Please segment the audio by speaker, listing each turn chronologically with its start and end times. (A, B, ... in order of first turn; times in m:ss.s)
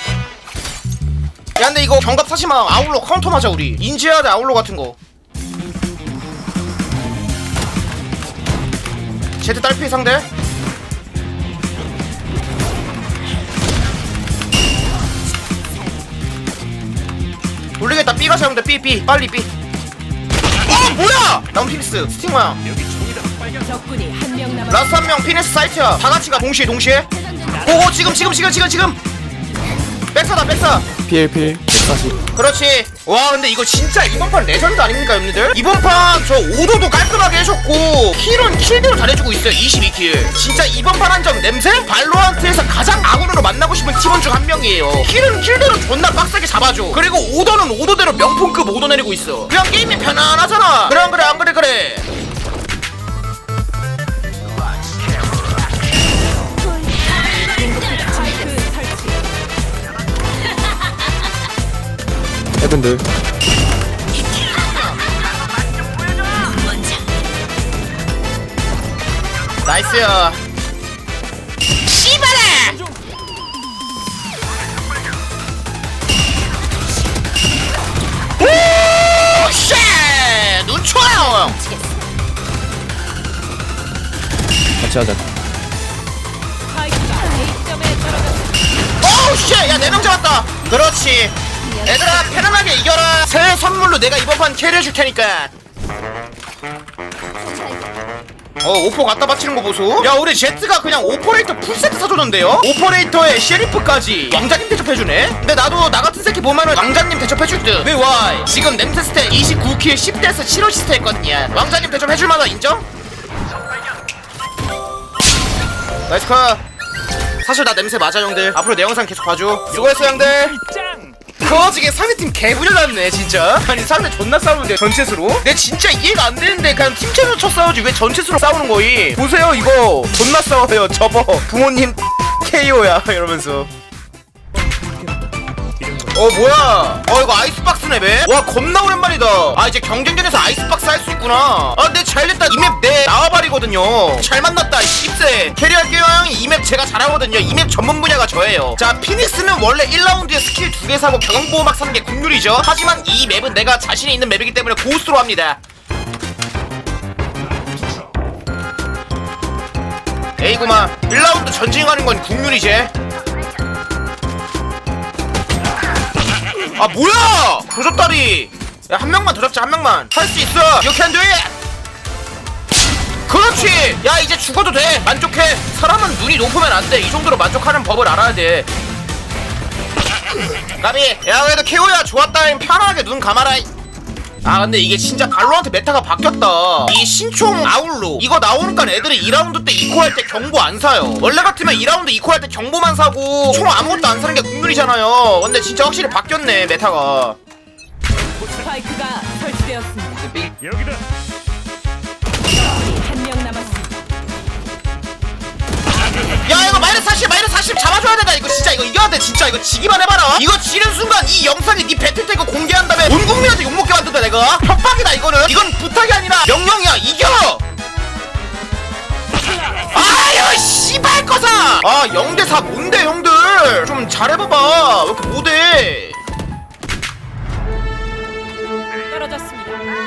0:01.6-0:05.0 A
0:09.4-0:10.3 A
0:17.8-0:19.5 A
0:20.6-0:22.6 A
0:23.5-0:24.7 B
0:24.7-0:29.0 A
0:30.1-0:31.0 A
0:31.0-0:32.2 C
0:32.2-0:52.1 A
0:57.5-0:59.2 B
1:02.6-1:03.1 C
1:09.6-1:10.4 A
1:11.8-1:12.8 A
1:18.4-1:21.6 A
1:21.5-1:22.0 B
1:24.8-1:25.2 C
1:26.7-1:28.6 B
1:29.0-1:35.5 A
1:38.6-1:52.8 A
1:56.1-1:56.6 A
1:57.4-2:13.7 A
2:15.9-2:35.6 A
2:40.4-2:42.9 A
2:46.6-2:51.5 A
2:53.3-2:58.7 A
3:00.7-3:03.7 A
3:04.4-3:17.4 A
3:18.4-3:20.4 B
3:22.6-3:24.0 B
3:26.4-3:37.6 A
3:39.8-3:46.2 A
3:49.1-3:49.8 B